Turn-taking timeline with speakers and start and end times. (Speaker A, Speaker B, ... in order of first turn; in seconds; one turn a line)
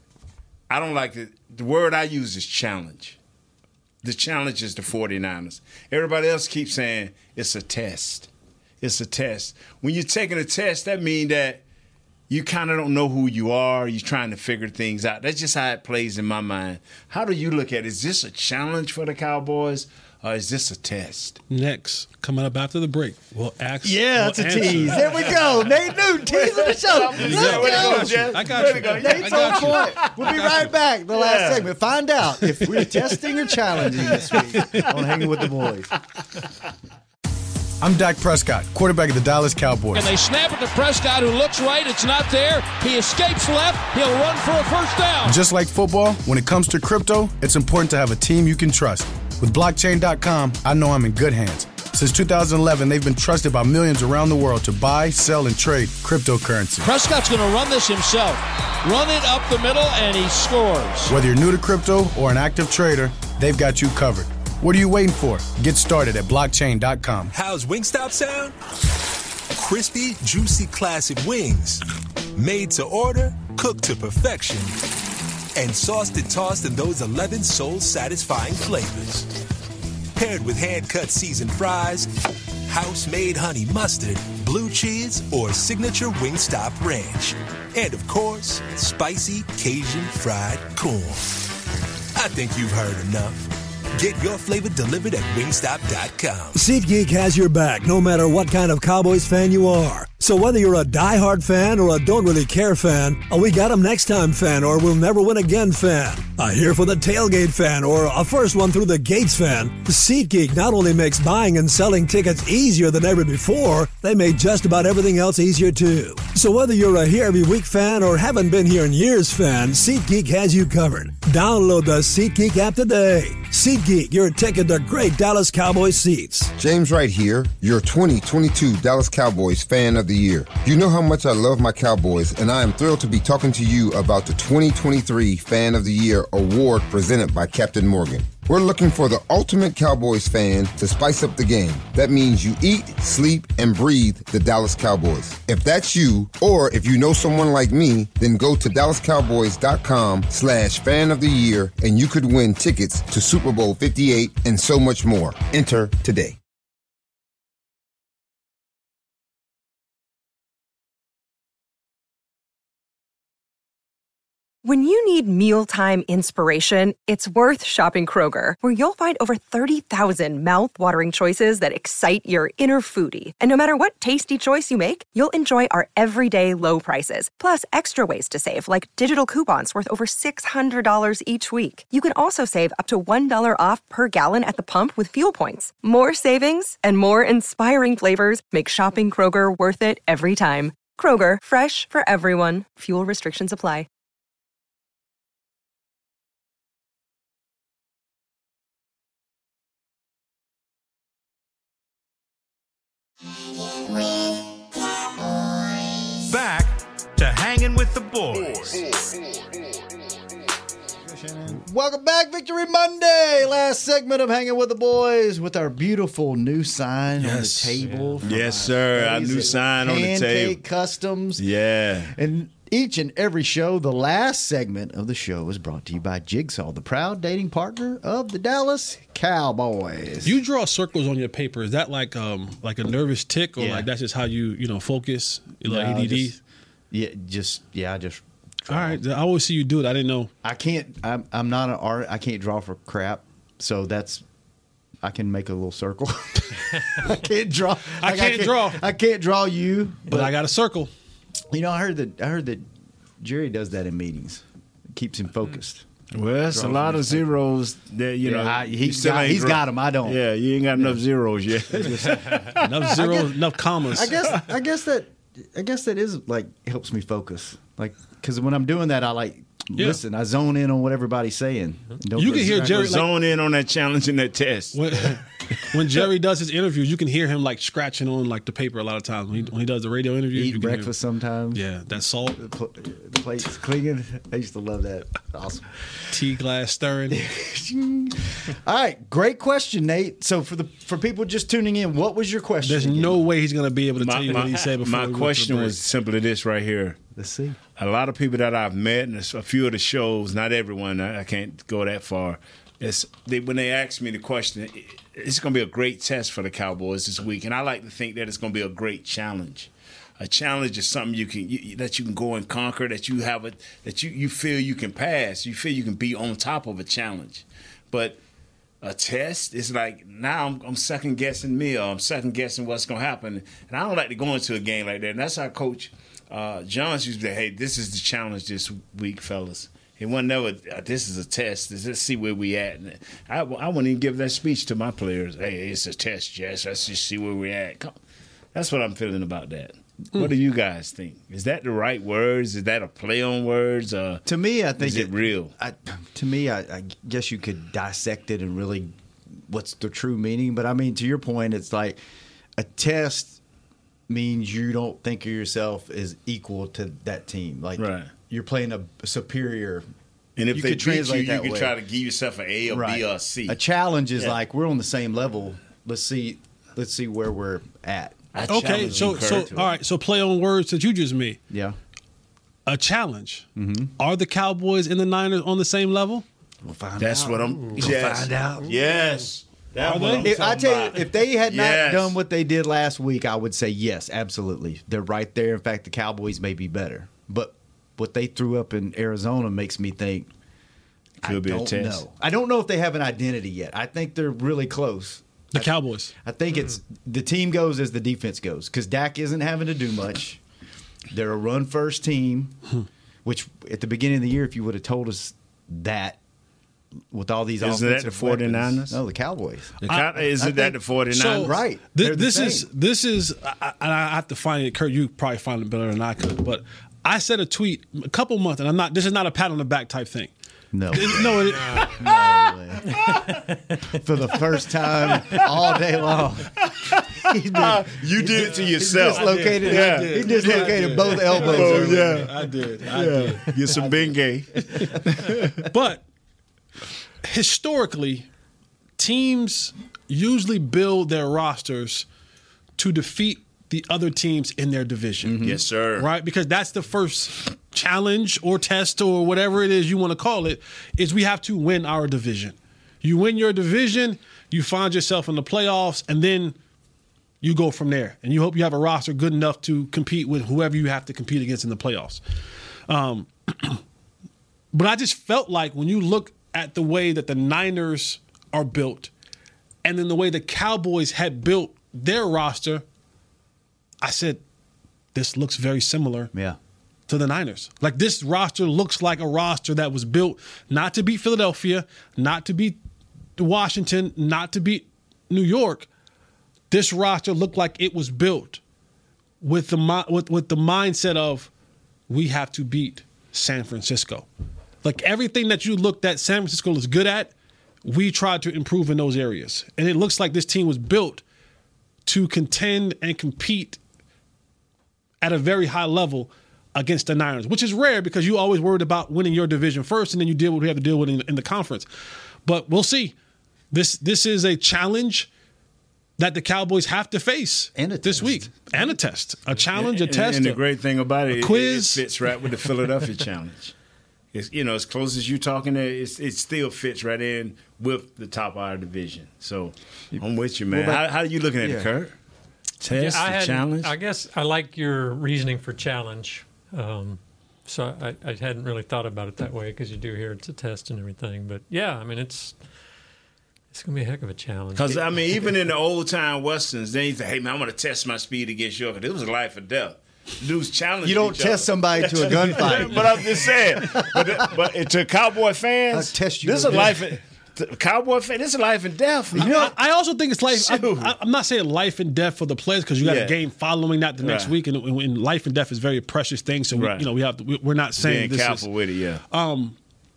Speaker A: 0.7-3.2
Speaker A: 4.0-8.3
Speaker A: 8.8-11.6
Speaker A: 12.3-21.4
Speaker B: 21.5-25.4
Speaker C: 23.8-35.9
Speaker A: 25.1-31.7
Speaker B: 27.2-30.6
Speaker A: 34.0-34.8
Speaker B: 34.6-34.9
Speaker D: 37.8-40.1
Speaker E: 40.0-45.3
Speaker D: 45.2-56.9
Speaker E: 56.8-61.1
Speaker D: 61.1-67.3
Speaker F: 67.3-68.5
Speaker F: 69.5-71.8
Speaker F: 72.3-74.8
Speaker F: 75.5-79.3
Speaker F: 80.2-82.1
Speaker F: 82.7-91.4
Speaker F: 92.2-96.6
Speaker G: 96.5-126.5
Speaker H: 126.5-156.4
Speaker I: 164.6-193.9
Speaker J: 206.3-208.7
Speaker C: 211.4-221.4
Speaker B: 217.2-217.8
Speaker K: 217.8-218.2
Speaker A: 218.2-220.6
Speaker A: 221.4-222.1
Speaker C: 222.1-230.4
Speaker B: 230.2-236.4
Speaker C: 233.6-233.9
Speaker C: 235.7-236.4
Speaker C: 236.9-239.0
Speaker B: 238.7-240.3
Speaker C: 240.4-244.2
Speaker C: 245.0-250.3
Speaker B: 248.0-248.8
Speaker B: 250.1-250.9
Speaker C: 251.5-252.7
Speaker C: 253.2-255.9
Speaker A: 256.1-262.7
Speaker C: 256.5-257.3
Speaker C: 258.2-260.2
Speaker C: 261.7-263.3
Speaker B: 262.6-264.1
Speaker C: 263.9-272.9
Speaker B: 272.2-273.1
Speaker A: 272.6-274.8
Speaker B: 274.7-280.9
Speaker C: 280.3-281.6
Speaker B: 281.5-282.4
Speaker C: 282.4-285.9
Speaker B: 286.1-287.2
Speaker C: 287.1-293.2
Speaker B: 292.6-295.8
Speaker A: 294.0-297.0
Speaker C: 297.1-297.6
Speaker A: 297.8-318.2
Speaker A: 318.8-337.9
Speaker A: 338.5-344.3
Speaker C: 344.3-348.9
Speaker A: 344.8-345.5
Speaker C: 349.5-352.0
Speaker C: 352.6-353.4
Speaker C: 354.1-359.9
Speaker A: 357.8-358.1
Speaker A: 360.4-363.6
Speaker C: 360.5-361.7
Speaker C: 362.7-369.7
Speaker A: 368.3-369.6
Speaker B: 368.5-371.4
Speaker C: 371.5-371.8
Speaker B: 372.7-373.5
Speaker C: 373.6-373.9
Speaker B: 374.0-376.2
Speaker C: 376.6-378.7
Speaker A: 377.0-382.2
Speaker K: 377.6-377.9
Speaker B: 379.8-380.3
Speaker C: 380.2-390.3
Speaker A: 391.2-392.1
Speaker C: 391.2-400.4
Speaker B: 395.5-396.1
Speaker C: 401.1-402.6
Speaker C: 403.2-406.2
Speaker C: 407.1-409.8
Speaker A: 407.6-409.0
Speaker A: 409.8-411.6
Speaker B: 409.9-410.2
Speaker C: 410.4-412.7
Speaker B: 411.1-420.3
Speaker C: 420.7-423.2
Speaker B: 420.9-421.9
Speaker K: 421.5-422.1
Speaker K: 423.0-423.4
Speaker C: 423.9-426.6
Speaker A: 426.6-430.6
Speaker C: 427.2-432.3
Speaker B: 429.1-433.9
Speaker A: 431.3-432.3
Speaker A: 432.9-435.6
Speaker B: 434.6-435.0
Speaker B: 435.7-436.0
Speaker B: 437.2-438.3
Speaker B: 439.0-442.1
Speaker B: 442.8-445.4
Speaker C: 445.2-445.6
Speaker A: 445.4-446.1
Speaker B: 446.0-456.6
Speaker B: 457.4-462.2
Speaker B: 462.9-463.8
Speaker B: 464.7-469.1
Speaker B: 469.8-472.8
Speaker B: 474.0-474.4
Speaker B: 475.1-476.3
Speaker C: 476.3-476.6
Speaker B: 477.1-482.8
Speaker B: 483.4-485.9
Speaker B: 486.7-488.6
Speaker B: 489.4-491.5
Speaker B: 492.1-494.3
Speaker B: 494.8-497.3
Speaker B: 497.8-501.2
Speaker B: 502.1-503.8
Speaker B: 505.2-511.9
Speaker B: 512.5-513.2
Speaker B: 513.7-515.3
Speaker B: 516.2-520.6
Speaker C: 517.8-518.5
Speaker A: 519.7-523.7
Speaker B: 521.3-522.0
Speaker A: 524.3-532.1
Speaker C: 530.1-531.0
Speaker C: 531.6-531.9
Speaker A: 532.8-533.9
Speaker K: 532.9-542.6
Speaker K: 543.7-545.0
Speaker A: 544.8-559.7
Speaker C: 551.0-554.4
Speaker C: 555.9-557.1
Speaker B: 559.4-568.7
Speaker C: 559.4-559.7
Speaker A: 560.5-561.1
Speaker A: 563.0-563.4
Speaker A: 564.2-564.5
Speaker A: 566.7-567.1
Speaker A: 568.0-569.2
Speaker B: 569.3-569.8